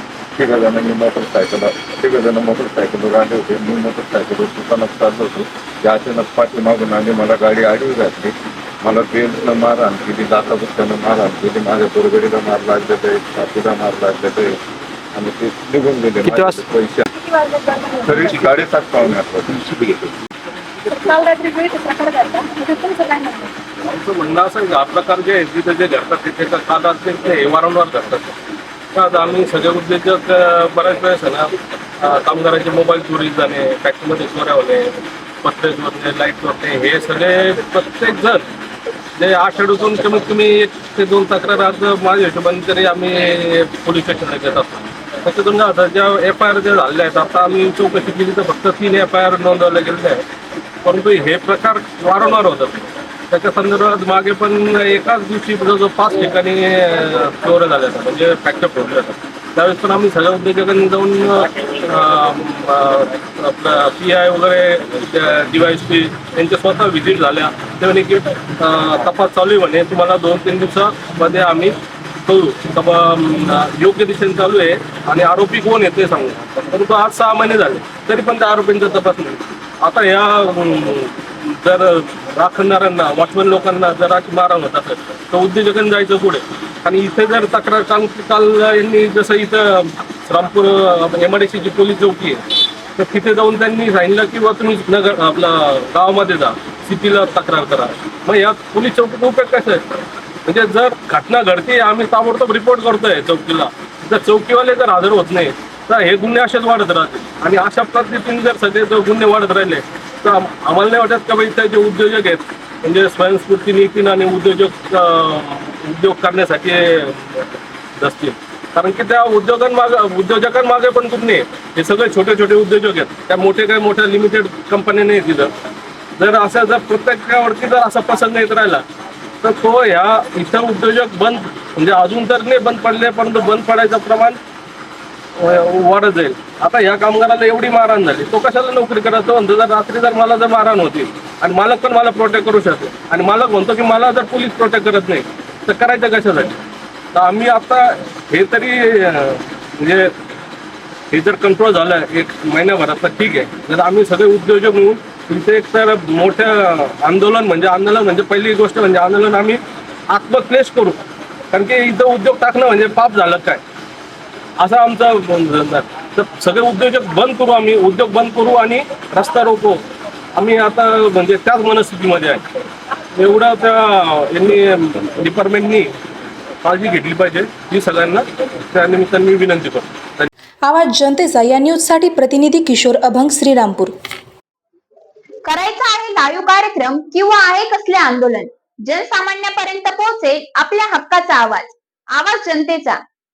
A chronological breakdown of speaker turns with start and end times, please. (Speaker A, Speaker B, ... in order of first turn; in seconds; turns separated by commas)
Speaker A: 0.4-14.6, Speaker A: 15.1-17.1, Speaker B: 17.2-18.4, Speaker A: 18.0-20.1, Speaker B: 20.9-23.5, Speaker C: 21.3-21.6, Speaker C: 22.3-23.4, Speaker D: 23.8-28.4, Speaker D: 28.9-38.5, Speaker D: 39.2-50.2, Speaker D: 50.8-92.4, Speaker D: 93.0-99.8, Speaker D: 100.5-125.5, Speaker D: 126.2-128.8, Speaker D: 129.4-134.4, Speaker D: 135.4-146.6, Speaker D: 147.1-150.1, Speaker D: 151.1-161.0, Speaker D: 161.5-163.6, Speaker D: 164.6-169.8, Speaker D: 170.3-172.4, Speaker D: 173.2-175.9, Speaker D: 176.6-180.3, Speaker C: 180.6-183.9, Speaker E: 185.4-193.0